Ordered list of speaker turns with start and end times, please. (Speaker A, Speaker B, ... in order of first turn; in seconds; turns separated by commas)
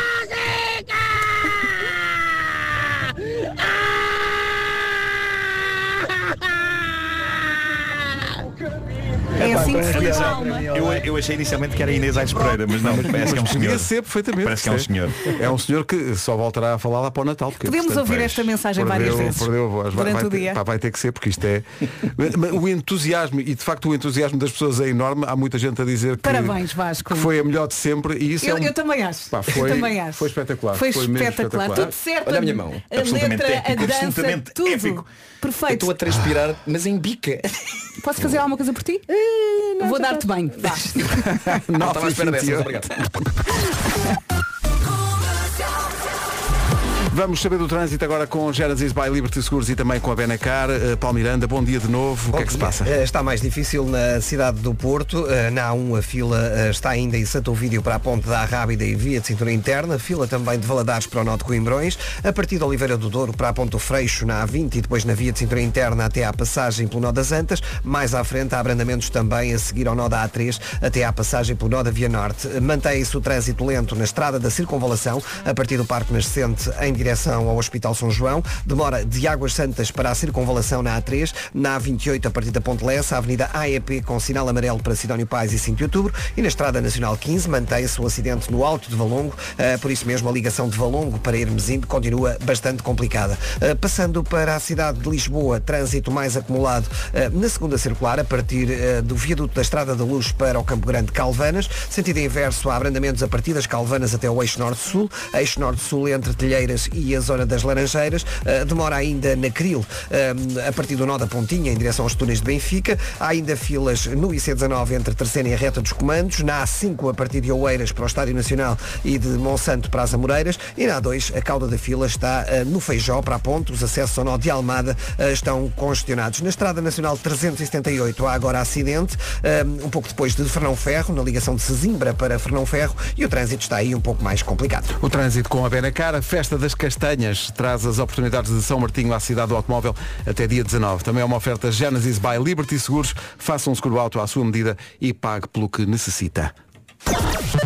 Speaker A: 9.4-10.7, Speaker B: 9.4-15.2, Speaker C: 9.5-10.0, Speaker C: 12.8-26.6, Speaker A: 17.6-20.6, Speaker A: 26.2-27.3, Speaker C: 27.1-28.7, Speaker A: 28.4-36.0, Speaker C: 29.3-31.9, Speaker D: 31.7-32.8, Speaker B: 32.9-35.1, Speaker D: 35.7-37.5, Speaker A: 38.0-39.0, Speaker D: 39.1-41.0, Speaker A: 39.8-41.4, Speaker C: 41.5-43.0, Speaker D: 41.8-42.9, Speaker C: 47.1-52.9, Speaker E: 52.3-134.9, Speaker C: 135.0-146.5